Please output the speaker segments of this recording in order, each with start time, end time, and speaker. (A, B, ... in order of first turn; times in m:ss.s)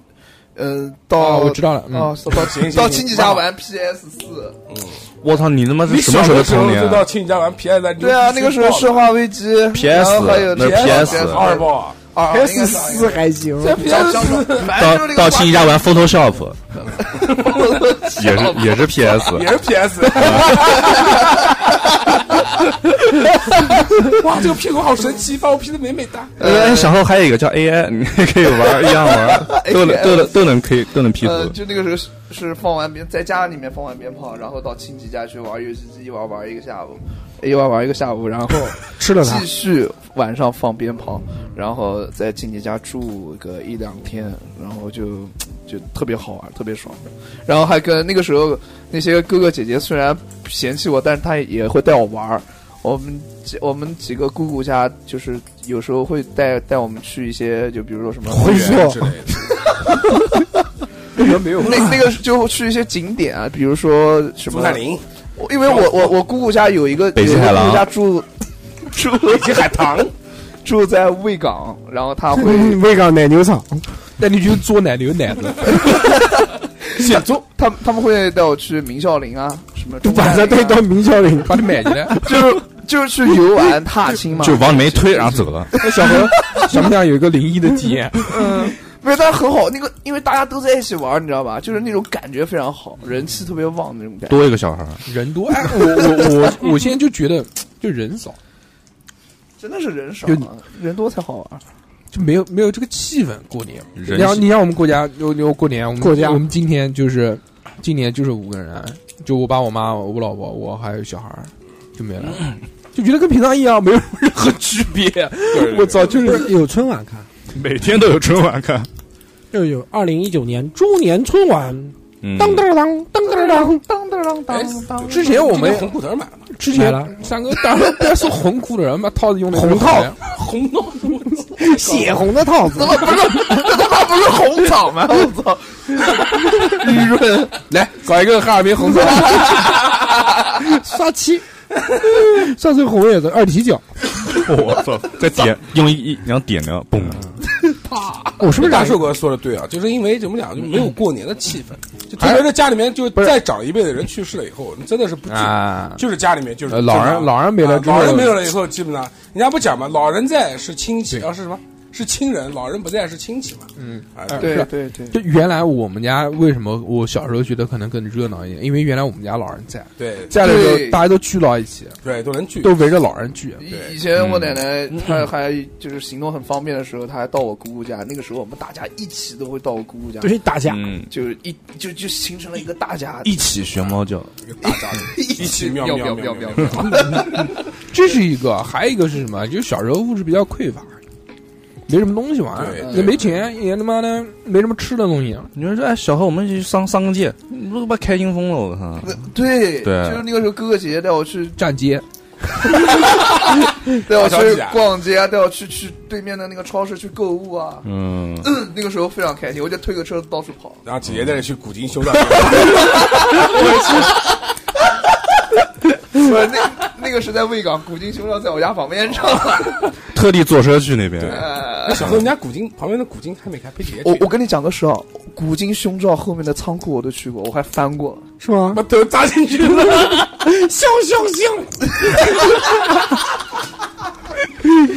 0:00.6-0:04.6 A
0:01.2-0:02.2 B
0:02.3-0:03.5 C
0:04.7-0:05.0 C
0:05.2-0:07.1 D
0:05.8-0:09.0 C
0:08.0-0:15.9 A
0:09.7-0:11.6 D
0:10.5-0:12.0 C
0:12.2-0:14.0 E
0:13.6-0:14.7 C
0:14.6-0:16.6 D
0:16.9-0:18.8 A
0:17.4-0:17.7 C
0:18.0-0:20.9 D
0:19.2-0:21.3 C
0:20.5-0:21.8 A
0:24.0-0:26.4 C
0:26.4-0:27.0 A
0:26.4-0:31.5 D
0:28.7-0:30.5 A
0:31.2-0:58.9 A
0:39.0-0:39.5 E
0:58.2-0:59.2 E
0:58.3-0:59.4 C
0:59.6-1:00.4 A
1:01.2-1:01.9 B
1:01.6-1:04.8 A
1:04.5-1:05.0 C
1:05.4-1:08.3 A
1:05.6-1:06.2 C
1:07.1-1:07.9 D
1:08.9-1:09.8 A
1:09.2-1:10.1 C
1:10.6-1:12.8 A
1:12.3-1:13.9 E
1:14.2-1:15.9 B
1:15.8-1:16.2 A
1:16.9-1:20.9 A
1:16.9-1:17.4 C
1:20.0-1:22.6 E
1:21.4-1:22.2 B
1:22.2-1:26.6 A
1:24.4-1:25.7 D
1:25.7-1:28.6 B
1:28.3-1:34.4 A
1:34.3-1:35.0 D
1:35.1-1:38.4 B
1:39.6-1:41.6 A
1:40.2-1:40.5 B
1:42.1-1:56.5 B
1:43.9-1:44.5 D
1:46.0-1:46.4 E
1:55.5-1:56.1 C
1:55.9-1:57.3 E
1:57.5-1:58.9 D
1:59.5-2:03.8 E
2:02.2-2:02.7 D
2:03.5-2:05.1 A
2:04.5-2:06.5 C
2:05.0-2:06.0 B
2:06.5-2:10.2 B
2:06.7-2:07.1 E
2:09.5-2:10.1 E
2:10.2-2:12.3 C
2:11.6-2:13.7 E
2:12.7-2:17.6 A
2:17.6-2:19.7 B
2:19.2-2:20.0 A
2:20.4-2:23.8 E
2:24.2-2:27.3 D
2:27.6-2:28.3 A
2:28.4-2:29.1 E
2:28.4-2:44.6 C
2:32.2-2:32.5 B
2:35.3-2:36.0 B
2:36.7-2:38.5 B
2:43.8-2:52.0 B
2:44.3-2:45.2 A
2:50.0-2:50.4 C
2:50.4-2:51.0 A
2:52.0-2:52.8 C
2:52.6-2:53.6 B
2:53.6-3:00.4 A
2:53.6-2:54.0 C
2:54.1-2:55.2 D
3:00.2-3:00.9 E
3:00.6-3:01.1 D
3:01.1-3:03.4 A
3:03.2-3:04.3 D
3:03.8-3:07.4 C
3:04.6-3:07.5 A
3:07.9-3:11.0 B
3:11.9-3:15.5 B
3:12.5-3:13.4 C
3:12.8-3:13.2 A
3:15.5-3:19.2 D
3:19.0-3:21.6 A
3:19.8-3:20.3 D
3:21.6-3:22.0 B
3:22.6-3:27.9 A
3:24.0-3:24.8 C
3:27.8-3:28.5 D
3:28.4-3:30.8 A
3:30.8-3:34.2 C
3:31.0-3:31.4 D
3:32.5-3:34.2 A
3:36.1-3:39.9 A
3:40.1-3:41.5 D
3:41.2-3:44.3 C
3:41.2-3:42.1 A
3:44.0-3:48.2 A
3:48.4-3:48.8 E
3:48.7-3:50.3 C
3:49.7-3:51.7 E